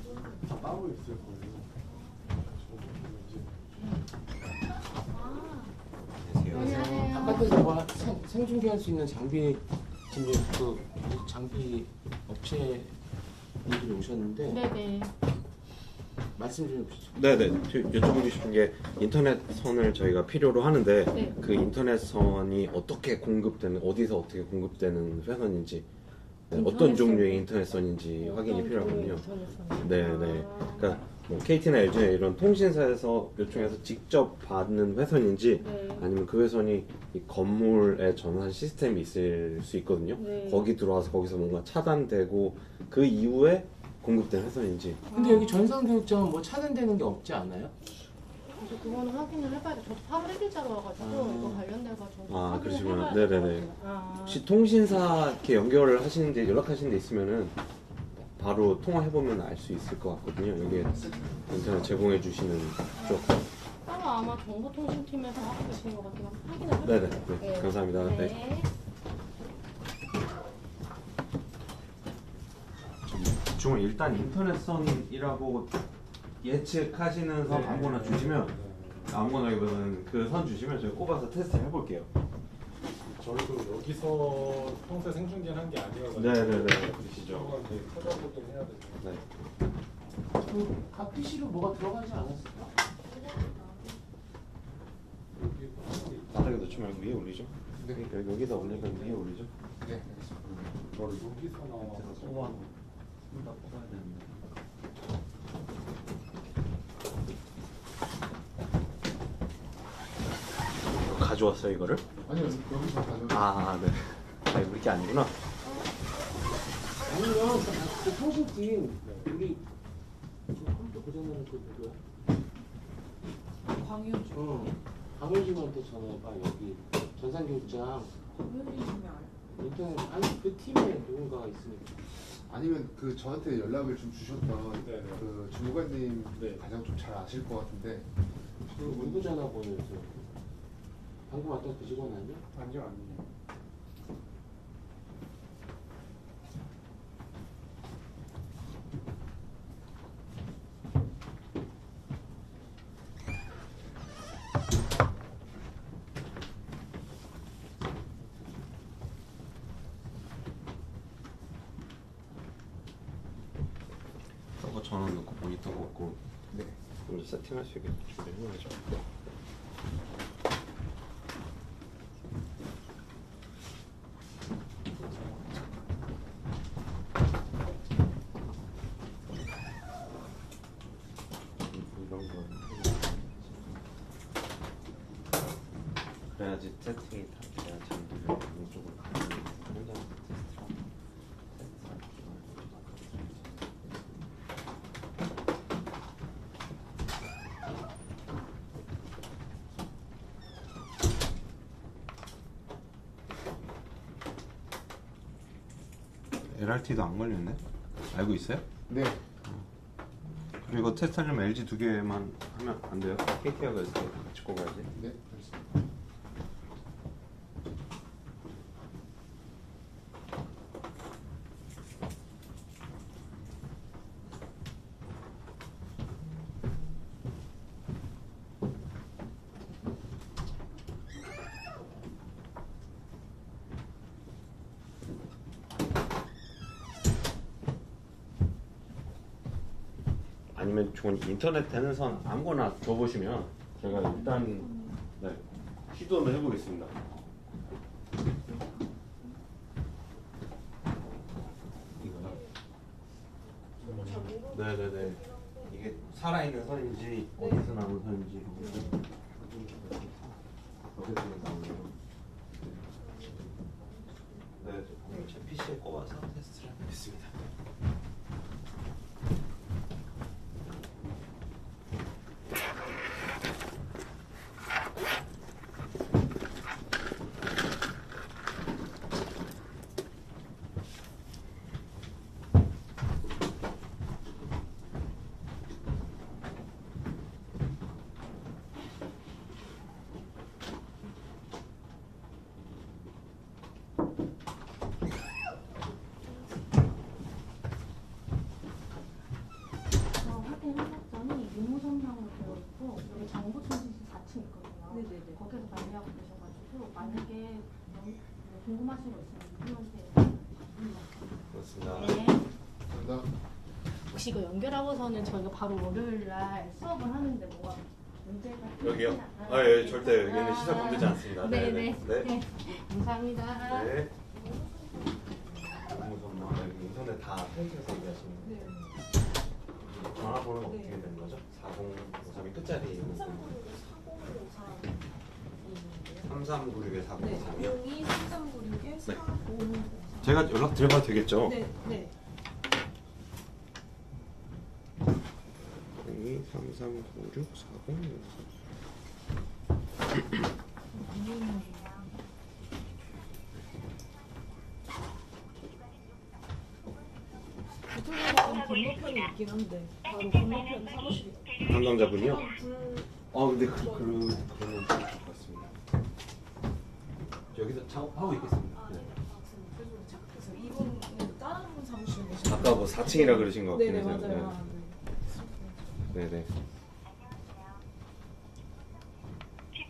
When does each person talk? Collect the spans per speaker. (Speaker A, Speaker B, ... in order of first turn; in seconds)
Speaker A: 0.4-1.7, 2.4-3.6, 77.4-79.4, 83.0-89.2, 95.3-97.0, 98.3-99.2, 100.9-102.7, 134.8-135.3, 136.3-136.6, 142.5-143.3, 253.8-254.2
Speaker B: 5.1-5.7, 6.5-7.5, 14.4-15.1, 21.1-21.4, 26.5-27.4, 28.2-30.9, 35.6-36.1, 40.1-40.7, 45.1-45.5, 48.5-54.4, 63.0-68.7, 300.2-310.6, 311.8-312.4, 314.1-323.9
Speaker C: 6.2-7.0, 17.1-25.9, 26.5-45.0, 52.3-53.7, 54.2-57.5, 58.1-63.5, 66.8-68.4, 73.1-75.7, 76.4-78.5, 79.1-82.1, 86.1-87.7, 96.3-99.5, 100.4-101.1, 101.8-102.7, 103.3-104.5, 111.0-112.0, 113.3-115.3, 164.6-166.2, 167.0-169.0, 181.7-183.8, 186.3-190.8, 191.5-194.1, 206.4-208.6, 210.6-214.9, 240.5-246.9, 252.0-252.4, 254.3-260.3, 260.9-261.9, 262.6-262.8, 264.6-267.3, 311.5-312.3, 318.8-322.4, 323.5-324.1, 325.7-328.8, 329.9-333.6, 336.2-337.8, 340.2-341.7, 346.0-348.4, 361.6-362.6, 363.3-365.7, 367.5-369.1, 372.4-374.6, 376.1-376.5
Speaker D: 6.5-13.0, 13.6-14.7, 16.4-17.2, 45.1-47.7, 51.0-51.6, 90.3-92.7, 117.0-119.6, 120.5-122.0, 124.3-128.2, 129.5-132.0, 138.7-140.2, 141.3-142.4
Speaker E: 60.6-62.2, 97.8-98.1, 99.8-100.5, 112.2-113.5, 132.2-138.1, 138.7-139.3, 166.5-166.8, 208.9-209.2, 214.9-215.7, 312.9-313.3
Speaker F: 93.2-93.7, 123.7-124.7, 128.3-129.3, 254.2-254.6, 257.4-257.7, 263.9-264.4, 304.9-305.4, 307.0-307.2, 324.3-325.7, 328.4-329.0, 330.6-331.1, 332.9-335.1, 335.6-336.4, 337.1-340.4, 341.4-342.1, 350.9-352.1, 357.9-364.4, 368.7-375.8